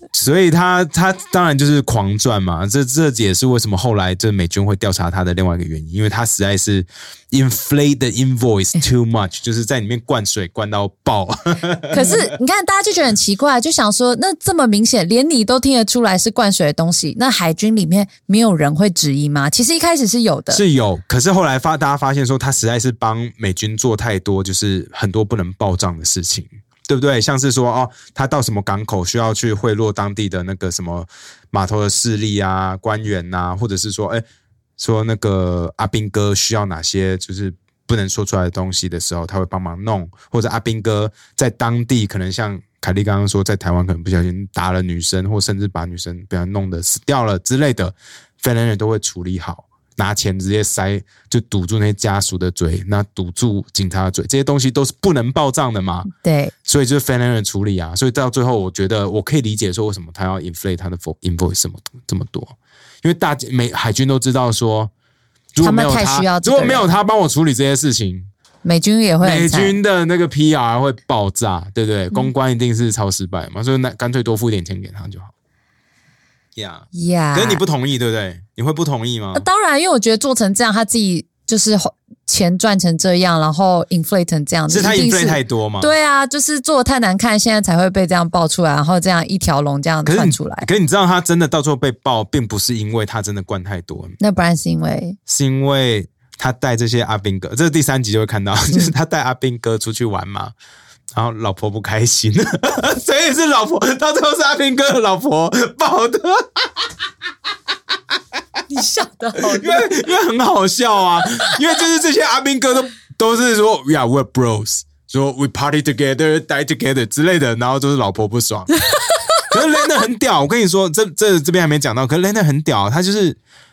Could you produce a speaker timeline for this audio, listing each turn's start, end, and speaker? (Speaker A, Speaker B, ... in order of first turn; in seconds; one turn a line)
Speaker A: 0.1-12.3
Speaker B: 11.9-20.6
Speaker A: 20.5-34.2
Speaker A: 34.8-56.1
Speaker B: 56.1-56.5
Speaker A: 56.6-64.9
Speaker A: 65.5-68.3
Speaker B: 65.6-66.9
Speaker B: 68.6-69.8
Speaker A: 69.2-75.3
Speaker A: 76.5-79.5
Speaker B: 76.9-77.6
Speaker B: 79.3-90.7
Speaker A: 84.7-85.9
Speaker A: 90.0-94.2
Speaker B: 94.2-95.2
Speaker A: 95.3-100.5
Speaker A: 101.2-106.9
Speaker B: 108.7-109.9
Speaker A: 109.4-118.7
Speaker A: 119.5-123.4